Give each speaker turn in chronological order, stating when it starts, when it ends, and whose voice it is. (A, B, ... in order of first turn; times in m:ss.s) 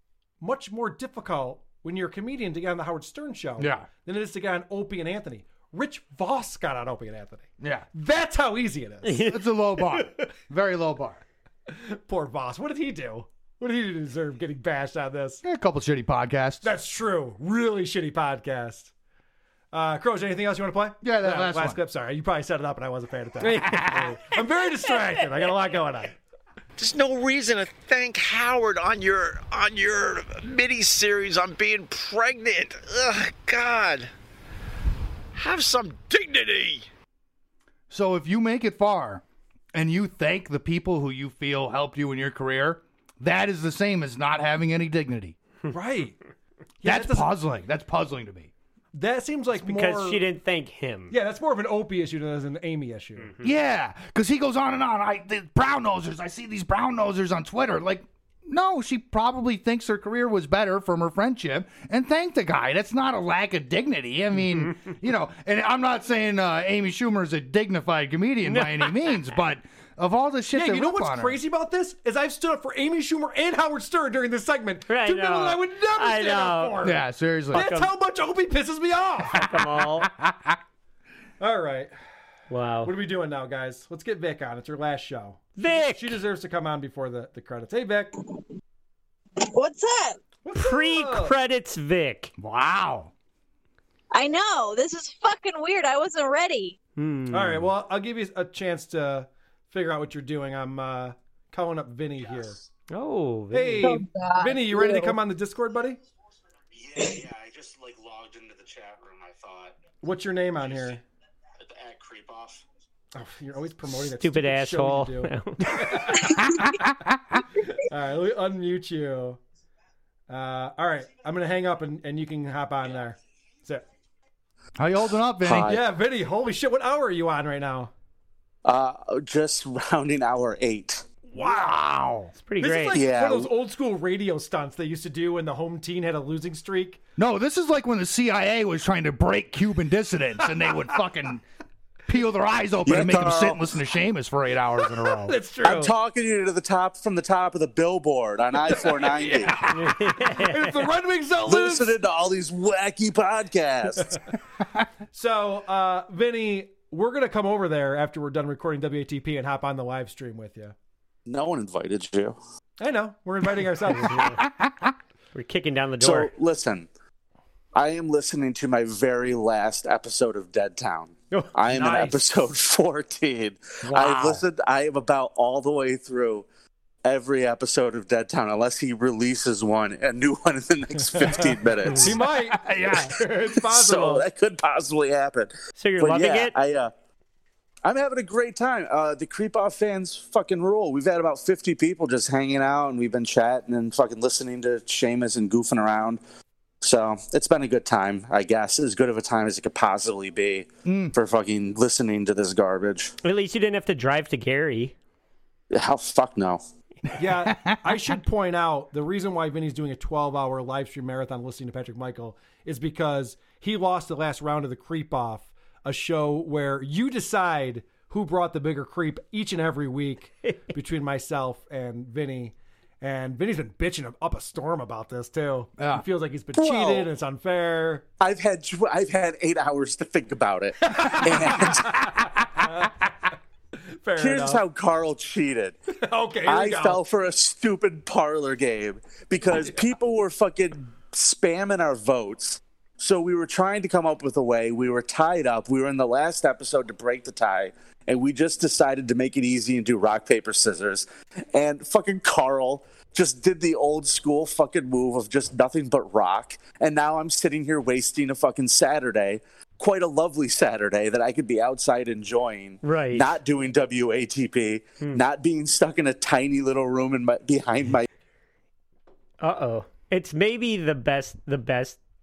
0:00.4-0:09.2 A
0:03.6-0:03.9 B
0:07.6-0:07.9 B
0:09.1-0:10.0 C
0:09.2-0:11.2 B
0:11.7-0:15.4 A
0:15.4-0:16.7 B
0:16.6-0:18.9 A
0:19.7-0:26.1 A
0:21.0-0:21.8 B
0:23.4-0:24.1 B
0:26.8-0:34.1 D
0:35.3-0:36.9 D
0:37.9-0:39.2 B
0:39.7-0:45.4 B
0:45.7-0:46.2 A
0:46.8-0:47.3 A
0:46.8-0:48.5 B
0:48.9-0:50.2 A
0:49.6-0:51.2 C
0:51.1-0:53.3 A
0:53.4-1:11.4 B
1:08.4-1:09.0 C
1:10.5-1:17.0 A
1:14.9-1:16.9 C
1:16.8-1:17.7 B
1:17.5-1:17.9 C
1:17.5-1:19.4 A
1:19.3-1:20.1 C
1:20.0-1:20.6 B
1:21.4-1:21.9 A
1:22.5-1:22.9 C
1:22.8-1:28.1 A
1:25.6-1:26.2 C
1:29.4-1:30.2 E
1:30.4-1:31.3 A
1:30.6-1:32.3 C
1:32.4-1:33.1 B
1:34.1-1:36.8 E
1:37.0-1:37.7 C
1:37.3-1:42.6 A
1:42.9-1:44.0 C
1:43.5-1:46.0 A
1:43.8-1:45.2 E
1:47.3-1:49.7 F
1:50.0-1:51.0 A
1:51.7-1:52.5 F
1:53.1-1:56.5 A
1:54.2-1:55.7 C
1:56.6-1:57.4 B
1:57.9-1:59.4 A
2:00.3-2:03.8 A
2:04.8-2:05.8 B
2:05.4-2:05.8 F
2:05.6-2:07.9 A
2:08.6-2:11.0 F
2:11.3-2:12.3 B
2:11.4-2:11.7 A
2:12.4-2:13.1 C
2:12.6-2:17.0 A
2:12.9-2:13.5 F
2:17.2-2:21.4 B
2:22.1-2:25.4 B
2:22.8-2:23.6 F
2:25.1-2:25.9 A
2:25.6-2:29.6 F
2:28.7-2:32.0 A
2:29.7-2:30.9 C
2:31.4-2:34.1 F
2:35.1-2:40.8 A
2:41.3-2:42.4 F
2:42.8-2:44.4 A
2:44.4-2:44.9 B
2:45.4-2:46.3 C
2:46.0-2:46.9 F
2:47.7-2:56.4 F
2:51.3-2:52.2 A
2:53.8-2:54.4 B
2:57.0-3:02.1 F
3:01.0-3:04.2 A
3:01.9-3:02.2 C
3:02.5-3:03.1 B
3:03.6-3:06.9 F
3:05.8-3:06.6 C
3:07.8-3:16.2 F
3:16.8-3:23.1 F
3:20.8-3:21.1 B
3:23.2-3:24.9 C
3:25.7-3:26.6 F
3:27.2-3:48.0 A
3:27.4-3:28.2 B
3:45.8-3:46.0 B
3:46.6-3:47.1 F
3:48.2-3:51.9 F
3:50.8-3:53.1 A
3:54.0-3:54.6 A
3:54.2-3:55.8 F
3:56.0-3:57.0 A
3:56.5-4:28.1 F
3:59.5-3:59.8 A
4:22.8-4:23.4 C
4:29.4-4:32.0 C